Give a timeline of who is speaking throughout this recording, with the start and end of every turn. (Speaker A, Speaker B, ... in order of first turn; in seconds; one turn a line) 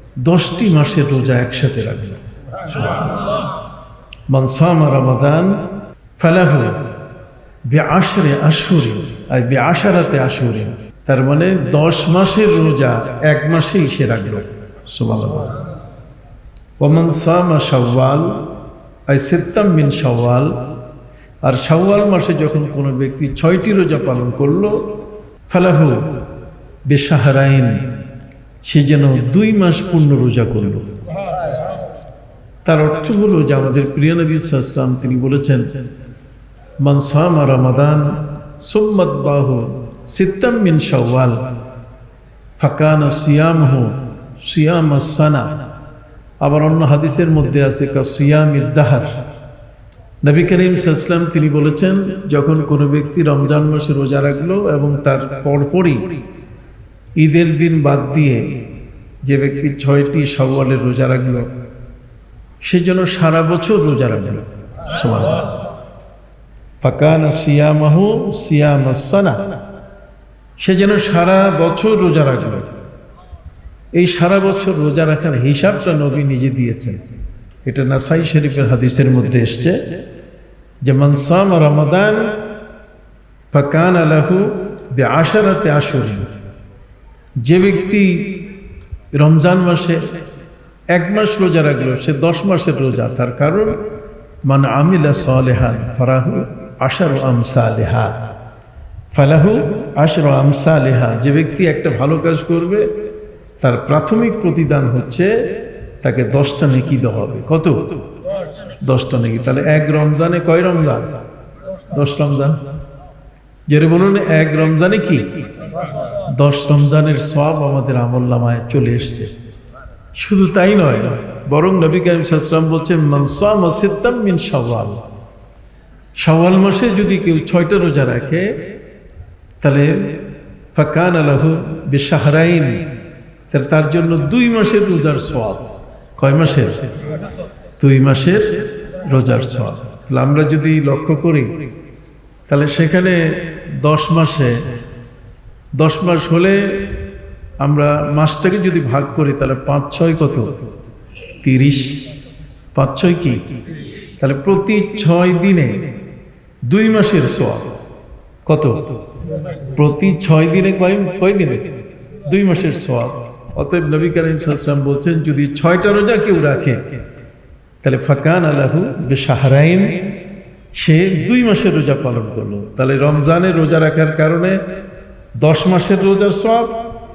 Speaker A: 0.2-2.2
Speaker A: 4.3-5.6
Speaker A: 6.2-6.8
Speaker A: 7.7-15.6
Speaker A: 16.8-18.4
Speaker A: 19.1-20.6
Speaker A: 21.4-24.9
Speaker A: 25.5-26.2
Speaker A: 26.9-27.9
Speaker A: 28.6-30.9
Speaker A: 32.6-35.7
Speaker A: 36.8-41.5
Speaker A: 42.6-45.6
Speaker A: 46.4-49.2
Speaker A: 50.2-56.2
Speaker A: 57.2-58.5
Speaker A: 59.2-61.5
Speaker A: 62.6-65.5
Speaker A: 66.8-69.4
Speaker A: 70.6-72.7
Speaker A: 73.9-77.1
Speaker A: 77.6-79.9
Speaker A: 80.8-82.3
Speaker A: 83.5-86.3
Speaker A: 87.4-88.5
Speaker A: 89.1-90.1
Speaker A: 90.9-93.8
Speaker A: 94.4-98.2
Speaker A: 99.1-102.9
Speaker A: 103.6-105.5
Speaker A: 106.0-107.8
Speaker A: 108.8-111.2
Speaker A: 111.9-112.6
Speaker A: 113.7-115.4
Speaker A: 116.2-119.3
Speaker A: 120.2-125.0
Speaker A: 126.2-128.6
Speaker A: 129.6-130.2
Speaker A: 130.7-132.8
Speaker A: 133.5-135.6
Speaker A: 136.2-136.9
Speaker A: 137.8-141.5
Speaker A: 142.5-144.6
Speaker A: 145.8-146.9
Speaker A: 147.6-150.5
Speaker A: 151.4-152.0
Speaker A: 152.7-153.5
Speaker A: 154.2-155.9
Speaker A: 156.6-157.7
Speaker A: 158.4-158.8
Speaker A: 159.7-161.7
Speaker A: 162.2-166.8
Speaker A: 167.8-170.1
Speaker A: 170.7-174.6
Speaker A: 175.4-176.8